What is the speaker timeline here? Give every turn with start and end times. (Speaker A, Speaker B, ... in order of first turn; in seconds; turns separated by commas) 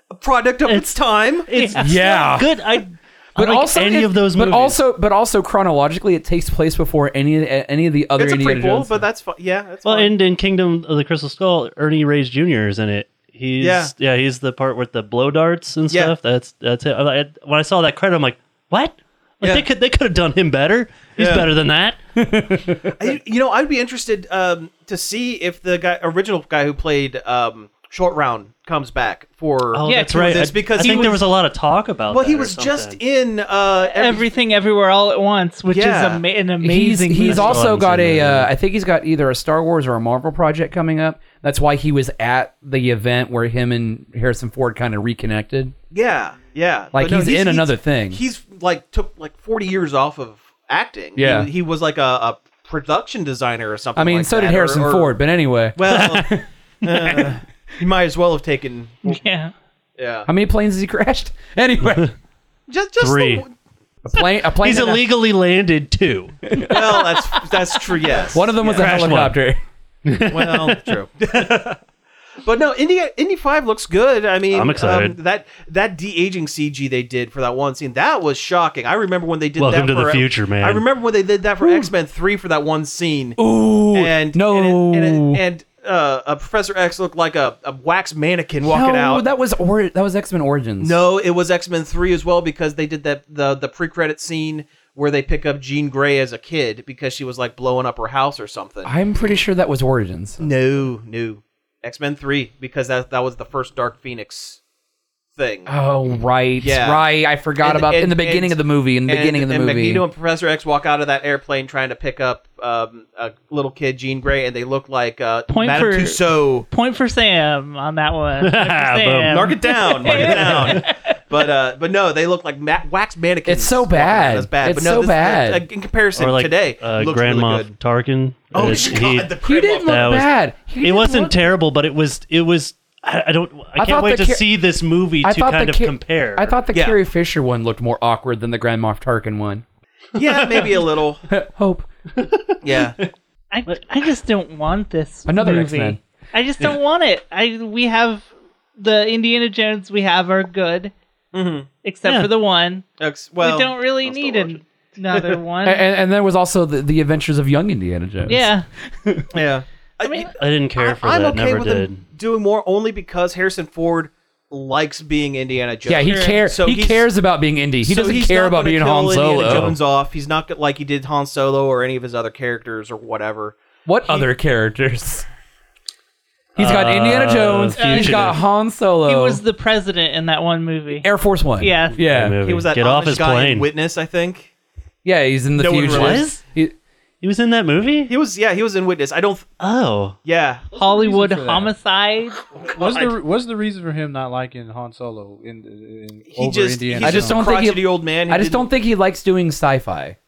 Speaker A: 0.1-1.5, Speaker B: 0.6-4.8, Speaker C: 1.5-2.0, Speaker D: 1.8-2.6, Speaker D: 3.4-9.1, Speaker A: 8.2-10.1, Speaker B: 9.8-22.0, Speaker A: 13.6-13.9, Speaker A: 21.2-21.5, Speaker D: 22.1-22.9, Speaker A: 23.0-31.2, Speaker B: 29.7-33.0, Speaker C: 29.8-31.2, Speaker A: 32.1-34.2, Speaker C: 33.9-37.7, Speaker A: 35.7-36.2, Speaker D: 36.6-45.7, Speaker B: 37.2-38.5, Speaker A: 45.9-55.2, Speaker D: 46.9-48.2, Speaker D: 51.1-51.5, Speaker D: 53.9-56.4, Speaker A: 55.8-59.2, Speaker B: 55.9-56.4, Speaker D: 56.9-57.4, Speaker C: 59.0-59.5, Speaker A: 60.0-60.3, Speaker D: 60.2-62.1, Speaker A: 62.7-63.5, Speaker B: 63.0-63.4, Speaker D: 64.0-65.0, Speaker B: 64.6-66.5, Speaker D: 66.5-67.2, Speaker A: 66.7-69.0, Speaker D: 68.3-69.6, Speaker B: 68.6-69.4, Speaker B: 70.0-70.8, Speaker A: 70.3-71.8, Speaker A: 72.4-83.4, Speaker B: 74.5-75.2, Speaker B: 79.6-80.8, Speaker D: 81.6-81.9, Speaker D: 83.4-85.4, Speaker A: 83.9-89.2, Speaker D: 88.6-91.0, Speaker A: 90.8-98.9, Speaker D: 98.8-100.4, Speaker A: 100.4-104.6, Speaker A: 105.3-105.7, Speaker D: 105.7-110.0, Speaker A: 106.6-107.0, Speaker A: 107.6-116.7, Speaker C: 115.5-120.9, Speaker B: 118.4-119.5, Speaker A: 119.3-127.7, Speaker B: 120.0-120.9, Speaker D: 123.5-125.6, Speaker B: 126.1-130.3, Speaker A: 128.5-130.1, Speaker D: 128.6-131.3, Speaker B: 130.8-136.6, Speaker D: 133.8-134.4, Speaker D: 135.2-139.6, Speaker A: 136.7-137.0, Speaker A: 140.1-141.2, Speaker B: 140.4-140.8, Speaker D: 141.3-141.8, Speaker B: 142.2-143.1, Speaker A: 142.6-142.9, Speaker C: 143.5-150.9, Speaker D: 145.2-146.0, Speaker A: 151.3-151.7, Speaker C: 151.8-152.8, Speaker B: 152.0-152.3, Speaker A: 153.0-154.5, Speaker C: 153.4-155.8, Speaker D: 155.6-158.5, Speaker C: 158.3-158.7, Speaker D: 159.0-159.3, Speaker A: 159.3-167.1, Speaker C: 160.0-160.3, Speaker B: 160.4-162.0, Speaker D: 165.8-169.8, Speaker C: 166.0-166.4, Speaker A: 167.8-173.6, Speaker B: 169.5-169.7, Speaker D: 173.8-175.3, Speaker B: 176.6-178.4, Speaker D: 176.6-179.4, Speaker C: 177.8-178.3, Speaker C: 179.0-181.1, Speaker D: 181.0-182.4, Speaker C: 181.6-182.0, Speaker B: 181.9-183.7, Speaker A: 182.4-184.5, Speaker D: 185.0-186.7, Speaker A: 185.6-186.3, Speaker B: 185.8-186.4, Speaker B: 187.2-188.1, Speaker A: 188.1-189.5, Speaker B: 189.6-190.2, Speaker A: 190.2-190.6, Speaker C: 190.7-192.4, Speaker E: 190.7-191.7, Speaker E: 192.6-197.5, Speaker A: 192.8-193.1, Speaker A: 196.3-198.7, Speaker D: 197.0-200.2